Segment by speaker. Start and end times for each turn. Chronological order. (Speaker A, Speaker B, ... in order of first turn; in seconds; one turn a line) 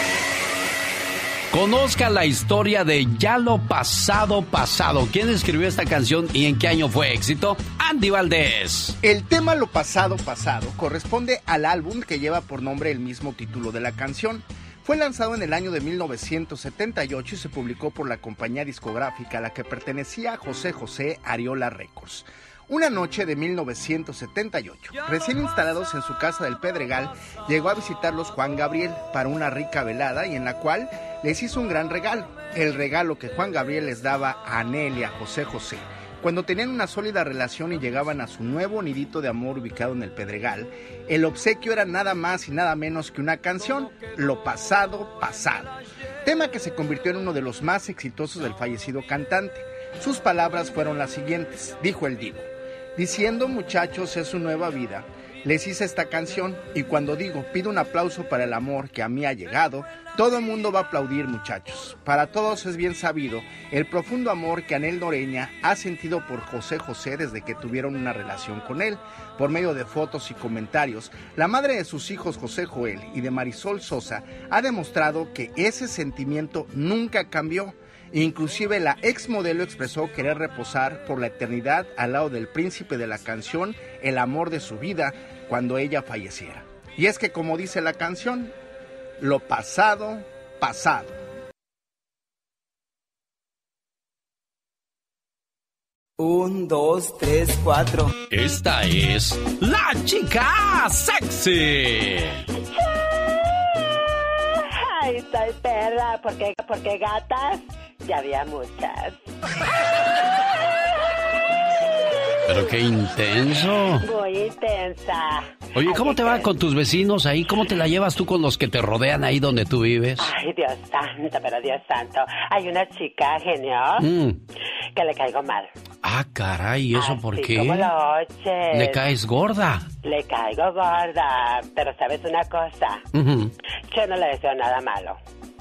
Speaker A: 1.5-9.0
Speaker B: 9.0-88.5
Speaker B: 89.2-91.2
Speaker C: 96.2-98.1
Speaker A: 98.3-102.4
Speaker D: 104.6-109.2
Speaker A: 112.5-114.0
Speaker D: 114.0-116.5
Speaker A: 115.7-120.3
Speaker D: 120.2-124.1
Speaker A: 124.0-124.4
Speaker D: 124.9-125.7
Speaker A: 126.0-127.9
Speaker D: 126.9-129.0
Speaker A: 128.7-129.9
Speaker D: 130.0-133.0
Speaker A: 133.1-133.5
Speaker D: 133.9-135.2